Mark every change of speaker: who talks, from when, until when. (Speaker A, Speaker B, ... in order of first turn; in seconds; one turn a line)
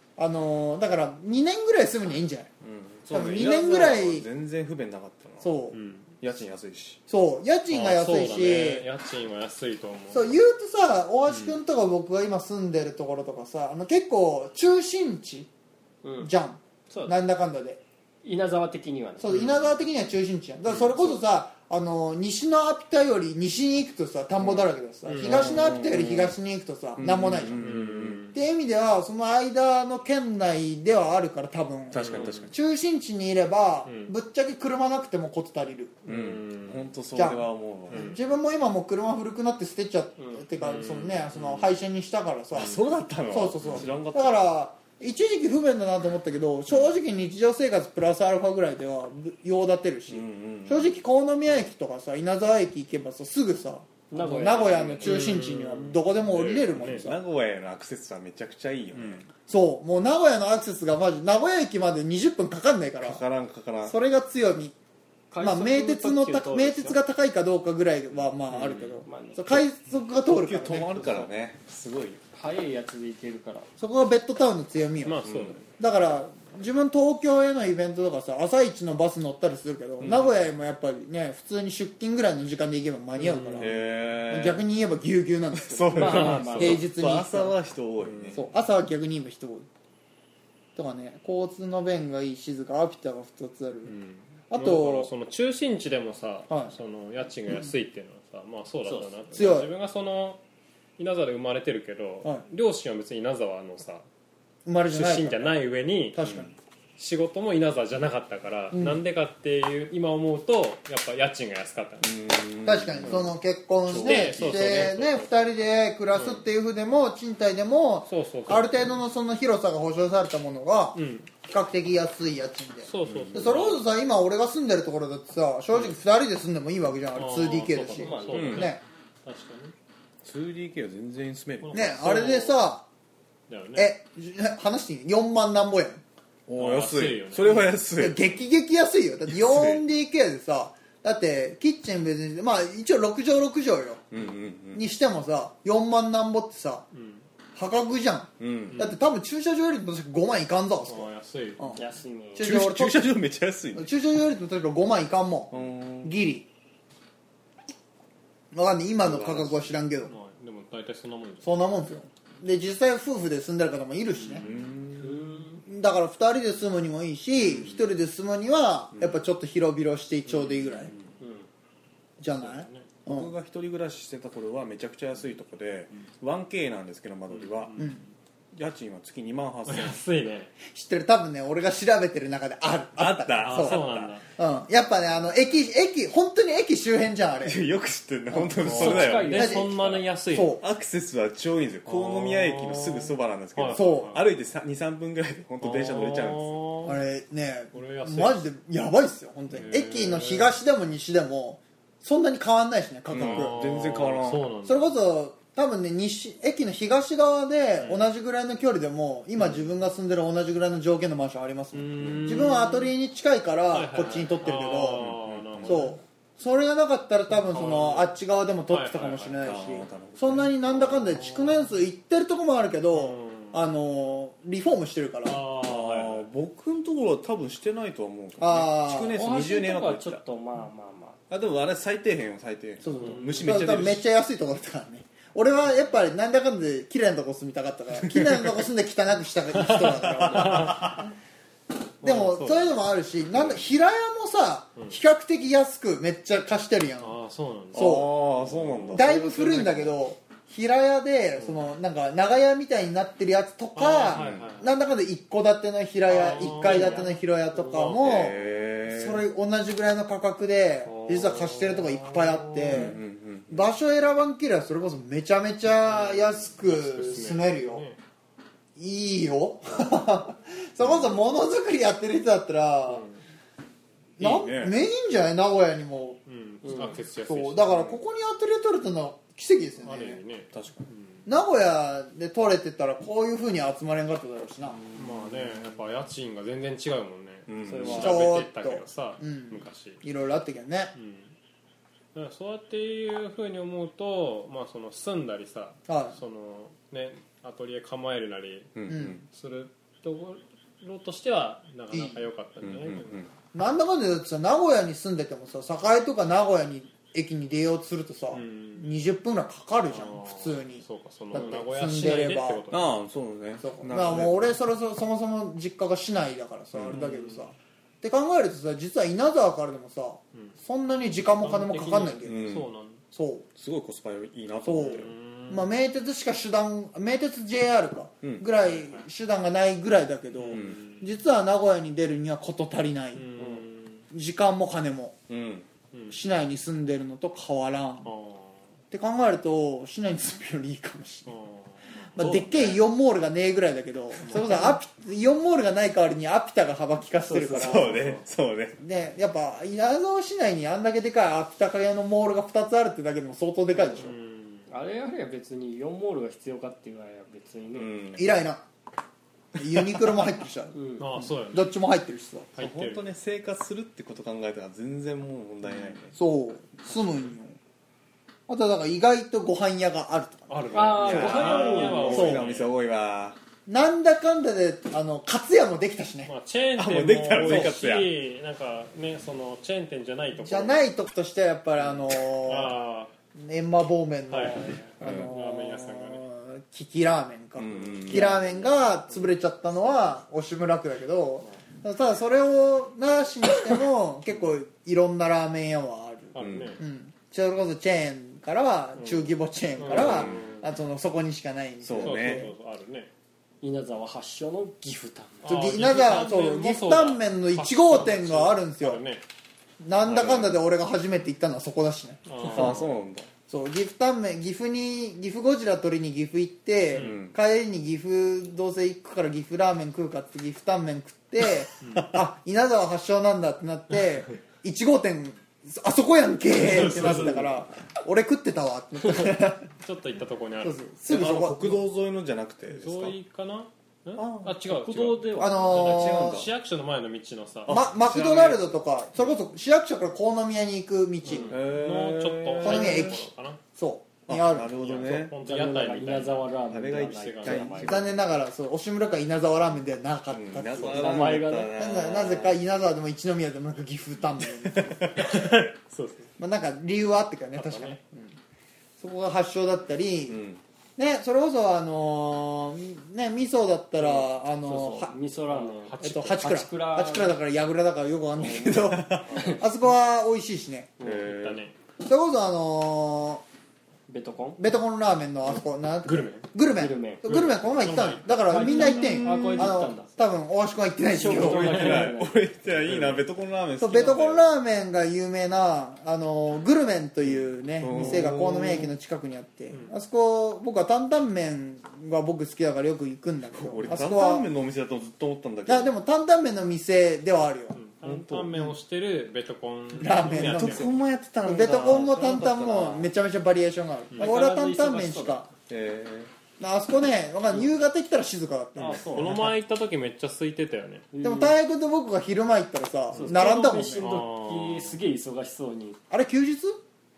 Speaker A: 0.2-2.5
Speaker B: 2.6-5.5
Speaker A: 3.1-4.2
Speaker A: 5.4-5.8
Speaker C: 5.7-6.1
Speaker B: 6.2-7.0
Speaker A: 7.1-8.8
Speaker C: 7.7-10.3
Speaker A: 10.1-15.5
Speaker C: 11.3-11.5
Speaker D: 16.0-16.3
Speaker A: 16.2-17.8
Speaker D: 16.9-17.1
Speaker D: 18.2-19.3
Speaker A: 19.2-27.8
Speaker B: 20.7-21.1
Speaker B: 24.4-24.6
Speaker C: 25.1-25.8
Speaker B: 25.2-26.4
Speaker B: 27.0-28.2
Speaker C: 27.5-28.4
Speaker A: 28.3-36.0
Speaker B: 31.9-32.5
Speaker C: 32.0-32.5
Speaker C: 33.8-34.1
Speaker C: 36.0-36.9
Speaker B: 36.1-38.2
Speaker A: 37.1-57.2
Speaker C: 37.9-38.2
Speaker C: 40.6-41.7
Speaker B: 42.5-44.4
Speaker B: 50.1-50.9
Speaker D: 54.1-55.2
Speaker C: 55.0-57.0
Speaker B: 56.7-59.3
Speaker C: 58.9-59.2
Speaker A: 59.5-63.2
Speaker B: 63.0-64.0
Speaker A: 63.8-64.7
Speaker D: 65.3-67.0
Speaker A: 65.4-71.0
Speaker C: 68.5-68.9
Speaker D: 69.0-69.6
Speaker B: 70.2-72.2
Speaker D: 72.3-73.7
Speaker A: 73.8-75.3
Speaker C: 75.0-75.7
Speaker B: 75.2-75.6
Speaker A: 75.8-87.5
Speaker B: 80.0-80.3
Speaker C: 83.2-83.7
Speaker B: 83.5-84.6
Speaker B: 85.5-88.4
Speaker D: 85.9-86.8
Speaker C: 86.0-86.8
Speaker C: 88.0-88.4
Speaker A: 88.3-89.7
Speaker A: 90.8-93.9
Speaker C: 93.8-100.4
Speaker A: 94.5-95.1
Speaker D: 98.8-99.2
Speaker A: 99.3-99.7
Speaker C: 101.0-104.0
Speaker A: 104.6-105.6
Speaker C: 104.9-106.2
Speaker A: 106.1-106.5
Speaker B: 106.2-106.5
Speaker C: 107.0-112.2
Speaker A: 108.7-109.0
Speaker B: 112.0-113.3
Speaker A: 112.6-128.8
Speaker C: 113.0-113.3
Speaker C: 113.9-115.3
Speaker B: 114.0-114.5
Speaker C: 116.1-116.4
Speaker C: 118.1-118.9
Speaker C: 120.9-121.3
Speaker C: 122.8-123.8
Speaker B: 123.0-123.6
Speaker C: 127.1-129.7
Speaker D: 128.0-128.6
Speaker B: 128.3-128.7
Speaker B: 130.2-132.2
Speaker C: 131.6-132.6
Speaker A: 131.7-132.8
Speaker C: 133.5-133.9
Speaker A: 133.7-136.0
Speaker B: 136.5-138.3
Speaker C: 136.5-137.7
Speaker A: 137.9-144.0
Speaker B: 139.3-139.8
Speaker B: 144.1-144.8
Speaker A: 144.7-146.8
Speaker C: 146.9-147.2
Speaker A: 147.6-151.8
Speaker B: 148.4-148.8
Speaker C: 148.7-149.0
Speaker C: 150.9-151.8
Speaker D: 151.8-152.5
Speaker A: 152.3-153.1
Speaker B: 152.4-153.9
Speaker A: 153.7-156.5
Speaker B: 155.5-156.1
Speaker A: 158.5-160.1
Speaker B: 159.0-159.5
Speaker C: 160.0-161.5
Speaker A: 161.4-164.4
Speaker B: 164.2-165.2
Speaker D: 165.0-165.6
Speaker A: 165.7-170.9
Speaker B: 167.4-167.8
Speaker B: 168.9-169.2
Speaker C: 170.3-171.1
Speaker D: 171.2-171.4
Speaker A: 172.2-173.3
Speaker C: 172.3-172.9
Speaker B: 173.1-177.7
Speaker C: 177.3-178.1
Speaker B: 178.5-180.0
Speaker C: 179.7-180.5
Speaker A: 180.7-187.6
Speaker B: 183.0-184.1
Speaker C: 183.4-184.2
Speaker B: 187.4-190.0
Speaker A: 188.3-188.7
Speaker C: 188.6-190.6
Speaker D: 188.6-189.9
Speaker A: 189.3-189.7
Speaker A: 190.3-190.6
Speaker B: 190.6-196.5
Speaker C: 191.8-194.2
Speaker A: 193.7-194.2
Speaker C: 195.6-197.0
Speaker A: 196.8-203.7
Speaker C: 197.7-198.4
Speaker C: 199.5-200.6
Speaker B: 203.1-204.5
Speaker C: 203.1-204.9
Speaker A: 204.6-225.4
Speaker C: 207.8-208.0
Speaker C: 211.7-212.9
Speaker B: 212.0-212.4
Speaker C: 213.7-215.9
Speaker B: 214.9-215.9
Speaker C: 217.3-218.1
Speaker C: 218.7-219.7
Speaker B: 219.4-220.5
Speaker C: 220.8-221.7
Speaker C: 222.9-223.6
Speaker C: 225.2-226.3
Speaker B: 225.5-230.2
Speaker A: 228.4-229.2
Speaker D: 229.1-231.2
Speaker B: 231.3-234.0
Speaker A: 232.8-241.1
Speaker C: 232.9-233.3
Speaker B: 238.0-238.7
Speaker C: 239.5-241.0
Speaker B: 240.0-241.0
Speaker C: 242.0-242.8
Speaker A: 242.0-247.2
Speaker C: 247.0-248.9
Speaker A: 247.7-248.2
Speaker B: 247.7-249.1
Speaker A: 248.9-263.0
Speaker D: 248.9-249.9
Speaker C: 253.8-254.7
Speaker B: 254.1-254.5
Speaker C: 256.1-258.3
Speaker B: 256.6-256.9
Speaker D: 256.7-257.1
Speaker B: 257.9-259.2
Speaker C: 260.8-263.0
Speaker B: 262.7-263.6
Speaker A: 263.5-267.8
Speaker C: 265.8-268.0
Speaker A: 268.8-273.0
Speaker B: 270.8-271.1
Speaker C: 272.9-273.2
Speaker A: 274.2-280.2
Speaker B: 274.2-274.8
Speaker C: 276.2-277.8
Speaker B: 277.7-278.0
Speaker C: 279.8-281.2
Speaker B: 280.5-280.9
Speaker A: 281.2-284.8
Speaker B: 284.9-285.6
Speaker C: 284.9-290.0
Speaker B: 287.5-288.2
Speaker D: 287.6-288.3
Speaker A: 287.8-290.9
Speaker C: 290.9-291.3
Speaker C: 292.1-303.2
Speaker A: 295.9-296.2
Speaker B: 298.7-299.2
Speaker A: 298.9-299.2
Speaker A: 301.9-302.3
Speaker B: 302.6-303.3
Speaker A: 303.5-312.6
Speaker C: 308.3-308.9
Speaker C: 309.9-313.0
Speaker B: 312.7-314.5
Speaker A: 313.6-322.5
Speaker B: 316.7-317.0
Speaker C: 316.9-317.4
Speaker C: 321.4-323.0
Speaker B: 322.2-322.7
Speaker A: 323.1-323.4
Speaker B: 323.6-325.1
Speaker A: 324.6-333.6
Speaker C: 324.7-325.7
Speaker B: 328.2-328.5
Speaker C: 328.6-329.1
Speaker C: 330.4-331.0
Speaker B: 330.5-330.8
Speaker C: 333.1-334.0
Speaker A: 334.1-335.1
Speaker B: 335.3-335.7
Speaker C: 335.9-336.2
Speaker A: 336.1-338.1
Speaker C: 338.0-338.6
Speaker A: 338.9-341.3
Speaker C: 341.3-342.8
Speaker A: 342.1-348.0
Speaker C: 344.2-344.8
Speaker D: 347.2-348.1
Speaker B: 347.5-348.8
Speaker C: 348.0-348.2
Speaker A: 348.8-354.1
Speaker C: 353.9-354.7
Speaker D: 354.7-358.1
Speaker B: 357.7-358.4
Speaker A: 358.1-358.6
Speaker A: 359.5-362.5
Speaker D: 360.7-361.0
Speaker C: 361.0-361.7
Speaker C: 362.5-363.0
Speaker B: 362.6-366.1
Speaker C: 365.7-365.9
Speaker A: 366.1-367.6
Speaker C: 366.9-367.3
Speaker A: 368.5-372.5
Speaker C: 370.5-372.7
Speaker D: 370.7-372.2
Speaker B: 370.8-373.4
Speaker A: 373.7-376.3
Speaker C: 376.2-380.8
Speaker B: 376.8-378.1
Speaker A: 377.4-377.7
Speaker A: 380.4-382.8
Speaker C: 381.8-383.1
Speaker A: 383.4-402.5
Speaker C: 384.3-386.2
Speaker B: 385.0-385.3
Speaker B: 387.6-388.4
Speaker C: 388.1-389.3
Speaker C: 396.3-396.8
Speaker B: 396.4-396.8
Speaker C: 398.9-400.7
Speaker B: 399.9-400.5
Speaker B: 401.8-402.5
Speaker C: 402.0-403.1
Speaker D: 403.6-405.7
Speaker C: 405.4-409.2
Speaker A: 405.5-409.0
Speaker A: 409.8-412.8
Speaker C: 410.0-410.5
Speaker C: 412.2-413.0
Speaker B: 412.4-413.3
Speaker A: 413.5-429.7
Speaker C: 416.9-417.2
Speaker B: 416.9-417.4
Speaker C: 421.8-422.1
Speaker C: 426.5-427.5
Speaker B: 426.8-427.2
Speaker C: 429.0-430.8
Speaker A: 430.6-431.8
Speaker B: 431.1-433.2
Speaker C: 432.7-437.8
Speaker A: 434.2-434.5
Speaker D: 434.6-435.8
Speaker A: 435.4-436.5
Speaker B: 435.7-436.5
Speaker B: 437.7-438.7
Speaker A: 437.7-441.5
Speaker C: 441.3-443.6
Speaker B: 441.4-443.2
Speaker A: 442.6-444.7
Speaker B: 444.3-445.3
Speaker C: 444.7-447.9
Speaker D: 445.4-448.0
Speaker B: 446.6-448.1
Speaker A: 447.8-455.3
Speaker B: 450.3-452.6
Speaker D: 450.8-451.8
Speaker B: 454.6-455.4
Speaker C: 455.1-456.3
Speaker A: 456.4-458.3
Speaker C: 457.5-458.0
Speaker A: 459.0-460.4
Speaker B: 460.3-460.6
Speaker A: 461.0-465.1
Speaker D: 464.0-467.4
Speaker C: 465.5-466.6
Speaker A: 466.0-470.9
Speaker B: 468.4-469.4
Speaker C: 469.3-469.6
Speaker D: 469.3-469.6
Speaker C: 471.0-471.7
Speaker B: 471.0-471.6
Speaker A: 472.0-473.4
Speaker D: 474.1-474.6
Speaker A: 474.6-481.9
Speaker C: 476.0-476.4
Speaker D: 476.6-477.2
Speaker C: 477.2-479.7
Speaker D: 478.5-480.1
Speaker D: 481.1-482.4
Speaker B: 481.2-484.5
Speaker C: 481.8-482.1
Speaker C: 482.8-483.2
Speaker A: 483.8-494.5
Speaker B: 487.2-488.9
Speaker B: 493.6-495.9
Speaker A: 495.7-497.8
Speaker C: 497.7-500.9
Speaker B: 498.0-498.8
Speaker A: 499.9-505.5
Speaker B: 500.3-503.1
Speaker D: 504.2-505.4
Speaker B: 505.7-506.3
Speaker A: 506.6-509.5
Speaker D: 508.8-509.5
Speaker C: 509.1-511.1
Speaker D: 511.1-511.5
Speaker A: 511.2-514.1
Speaker D: 513.1-516.0
Speaker C: 514.0-515.0
Speaker A: 516.1-516.8